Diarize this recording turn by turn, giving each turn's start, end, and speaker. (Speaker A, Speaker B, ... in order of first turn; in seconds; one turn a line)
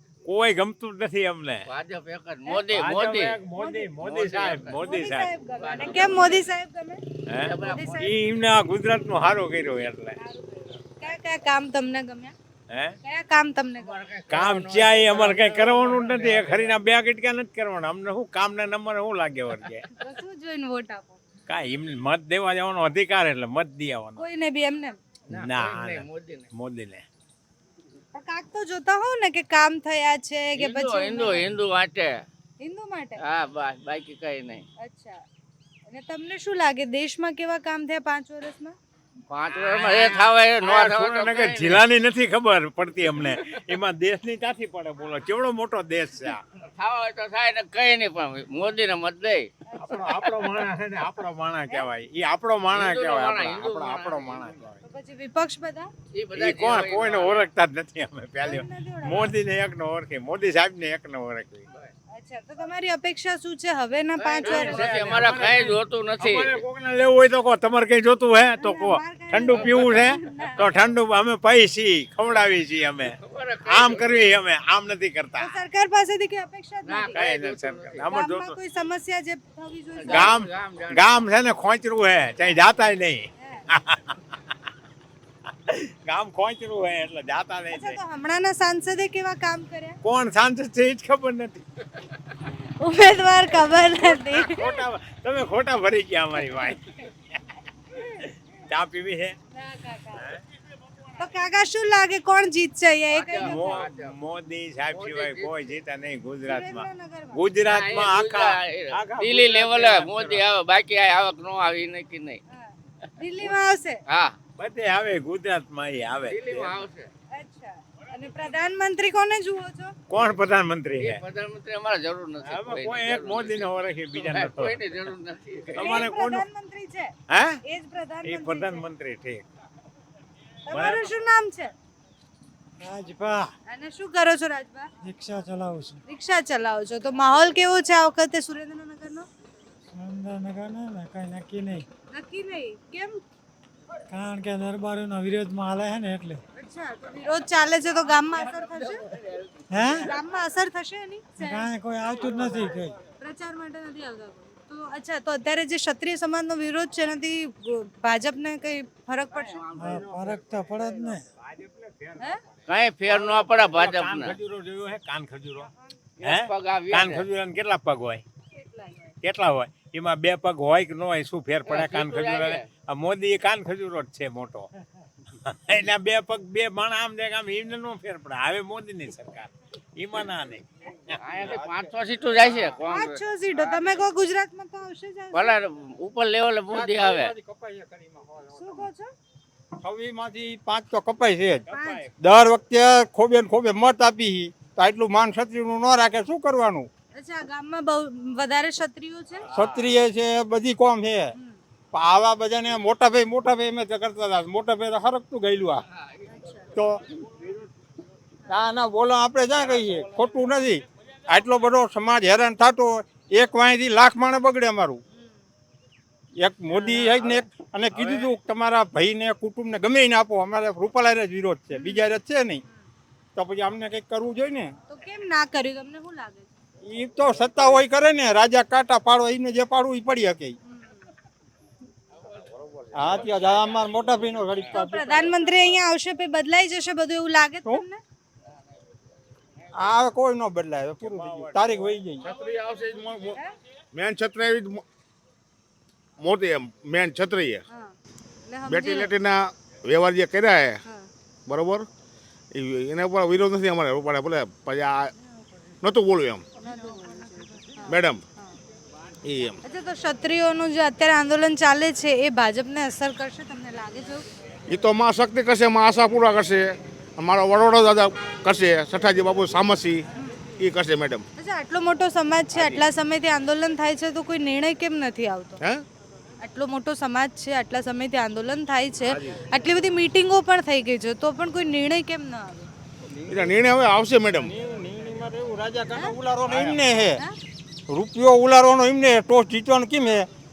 Speaker A: 0.2-1.7
Speaker B: 1.7-3.4
Speaker A: 2.7-5.3
Speaker C: 3.6-3.9
Speaker B: 4.0-4.9
Speaker C: 4.8-7.0
Speaker B: 5.6-6.5
Speaker A: 7.3-10.2
Speaker B: 7.4-8.1
Speaker C: 7.7-8.2
Speaker C: 10.2-12.3
Speaker A: 12.7-12.9
Speaker C: 13.0-13.9
Speaker B: 13.8-16.8
Speaker A: 14.3-19.9
Speaker C: 20.0-21.2
Speaker A: 21.5-24.2
Speaker C: 24.2-25.0
Speaker B: 25.3-26.5
Speaker A: 25.3-27.0
Speaker C: 28.1-31.5
Speaker B: 30.6-32.2
Speaker C: 32.6-33.2
Speaker B: 33.2-34.6
Speaker C: 34.8-35.2
Speaker C: 35.9-38.7
Speaker B: 39.3-41.9
Speaker A: 39.4-46.4
Speaker B: 46.8-49.5
Speaker A: 49.8-54.8
Speaker C: 49.9-50.1
Speaker B: 52.7-54.5
Speaker C: 54.8-55.9
Speaker B: 56.1-57.5
Speaker A: 56.3-61.6
Speaker C: 58.4-59.3
Speaker C: 62.1-64.9
Speaker B: 64.2-66.6
Speaker A: 64.4-75.6
Speaker C: 68.6-70.6
Speaker B: 69.5-70.1
Speaker B: 73.2-74.2
Speaker C: 75.4-77.2
Speaker B: 76.8-78.1
Speaker A: 77.1-78.5
Speaker C: 78.1-80.4
Speaker B: 80.0-81.1
Speaker A: 80.1-84.4
Speaker A: 85.7-88.0
Speaker C: 87.7-90.0
Speaker A: 90.0-91.6
Speaker C: 92.8-94.8
Speaker A: 94.1-97.4
Speaker A: 98.2-99.4
Speaker C: 99.5-100.3
Speaker C: 101.2-103.9
Speaker B: 103.1-104.1
Speaker A: 103.4-110.4
Speaker B: 104.9-105.7
Speaker C: 106.5-107.4
Speaker B: 107.7-112.4
Speaker C: 112.5-114.0
Speaker B: 114.1-114.4
Speaker A: 114.6-116.8
Speaker B: 116.2-117.1
Speaker C: 117.3-119.9
Speaker A: 120.1-121.2
Speaker B: 120.9-126.1
Speaker A: 122.4-125.1
Speaker A: 125.7-126.4
Speaker C: 125.8-127.1
Speaker A: 127.3-127.6
Speaker C: 127.7-128.8
Speaker A: 128.2-129.4
Speaker C: 130.7-131.7
Speaker A: 130.7-131.1
Speaker D: 132.8-133.5
Speaker C: 133.7-134.9
Speaker D: 135.0-136.0
Speaker C: 136.1-139.3
Speaker D: 139.9-141.8
Speaker C: 142.1-143.2
Speaker D: 144.1-146.4
Speaker C: 146.6-149.1
Speaker D: 149.7-150.1
Speaker C: 150.0-151.7
Speaker D: 151.4-152.9
Speaker C: 153.2-159.6
Speaker B: 159.3-160.0
Speaker D: 159.7-161.2
Speaker A: 159.8-162.3
Speaker B: 162.7-164.4
Speaker A: 162.9-165.7
Speaker B: 166.2-167.3
Speaker A: 166.2-168.2
Speaker C: 168.6-169.1
Speaker A: 169.2-174.7
Speaker B: 171.6-172.7
Speaker A: 175.3-181.3
Speaker B: 181.2-183.6
Speaker C: 182.9-185.5
Speaker B: 185.3-187.3
Speaker E: 186.7-188.8
Speaker C: 188.6-189.1
Speaker E: 189.8-196.9
Speaker A: 191.7-192.1
Speaker C: 191.7-192.0
Speaker C: 197.1-199.5
Speaker E: 199.5-201.3
Speaker A: 199.5-199.8
Speaker E: 201.9-205.8
Speaker C: 206.3-206.7
Speaker E: 206.7-207.0
Speaker E: 208.5-215.0
Speaker E: 216.4-222.6
Speaker C: 216.7-217.0
Speaker C: 221.7-222.1
Speaker E: 223.3-224.7
Speaker C: 224.9-226.5
Speaker E: 226.8-230.5
Speaker C: 230.7-231.0
Speaker E: 232.9-235.2
Speaker C: 234.7-238.0
Speaker E: 239.7-242.3
Speaker A: 241.0-241.8
Speaker B: 242.4-242.7
Speaker F: 242.9-243.2
Speaker F: 243.9-244.8
Speaker F: 246.2-247.6
Speaker C: 248.5-249.1
Speaker F: 248.7-250.8
Speaker F: 251.4-251.9
Speaker F: 252.5-255.1
Speaker F: 255.8-256.4
Speaker C: 256.6-258.5
Speaker F: 257.9-258.2
Speaker F: 259.2-259.6
Speaker C: 259.6-264.2
Speaker F: 264.7-270.0
Speaker F: 270.6-271.2
Speaker C: 271.4-275.6
Speaker C: 276.4-282.7
Speaker F: 283.3-284.5
Speaker E: 284.4-287.2
Speaker E: 287.9-290.3